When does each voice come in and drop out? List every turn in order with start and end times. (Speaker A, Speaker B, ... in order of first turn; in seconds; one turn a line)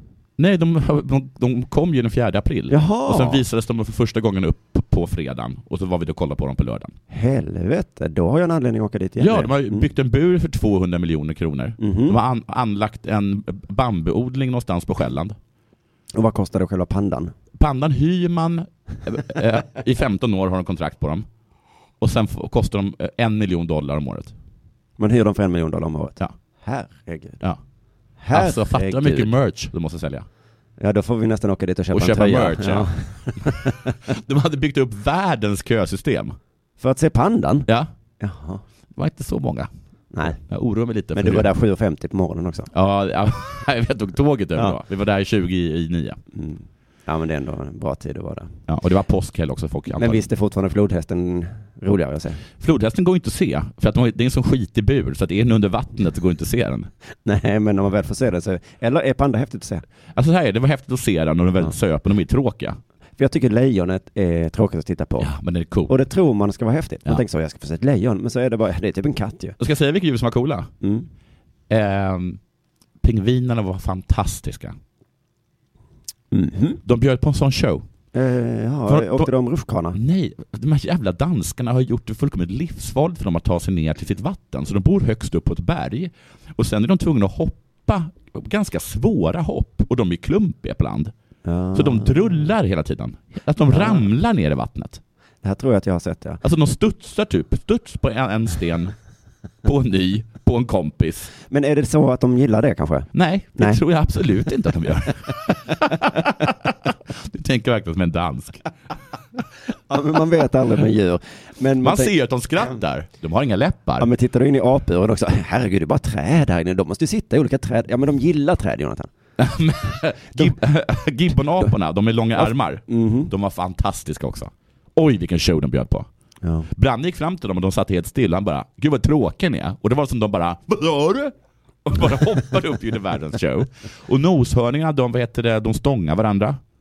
Speaker A: 0.4-6.9
Speaker B: 2.7-3.4
Speaker B: 7.1-9.8
Speaker A: 9.2-15.4
Speaker B: 11.8-12.2
Speaker B: 16.1-17.3
Speaker A: 17.6-21.3
Speaker A: 22.0-24.3
Speaker B: 25.0-27.4
Speaker B: 28.2-29.3
Speaker A: 28.3-30.3
Speaker B: 30.8-33.9
Speaker A: 31.9-33.5
Speaker A: 34.0-36.4
Speaker B: 36.8-37.7
Speaker A: 37.7-37.9
Speaker B: 38.2-38.6
Speaker A: 38.9-39.7
Speaker B: 40.1-40.4
Speaker A: 40.2-41.5
Speaker B: 41.1-42.7
Speaker A: 42.7-46.2
Speaker B: 46.3-48.5
Speaker A: 48.7-50.2
Speaker B: 50.0-52.4
Speaker A: 52.6-56.9
Speaker B: 57.2-59.8
Speaker A: 60.1-62.8
Speaker B: 63.2-65.3
Speaker A: 65.2-65.9
Speaker B: 65.9-69.6
Speaker A: 69.6-70.7
Speaker B: 70.8-71.1
Speaker A: 71.7-72.4
Speaker A: 73.0-74.8
Speaker B: 76.3-76.8
Speaker A: 76.8-77.8
Speaker B: 78.1-80.0
Speaker A: 78.9-79.3
Speaker A: 79.9-91.1
Speaker B: 91.4-92.4
Speaker A: 91.7-95.0
Speaker B: 93.7-94.1
Speaker B: 95.4-96.4
Speaker A: 96.4-98.9
Speaker A: 99.6-101.3
Speaker B: 101.5-103.8
Speaker A: 103.1-108.6
Speaker B: 109.9-112.1
Speaker A: 111.8-114.1
Speaker B: 114.0-119.1
Speaker A: 119.4-126.1
Speaker B: 122.3-123.3
Speaker B: 126.4-126.7
Speaker A: 126.7-131.3
Speaker A: 131.8-136.6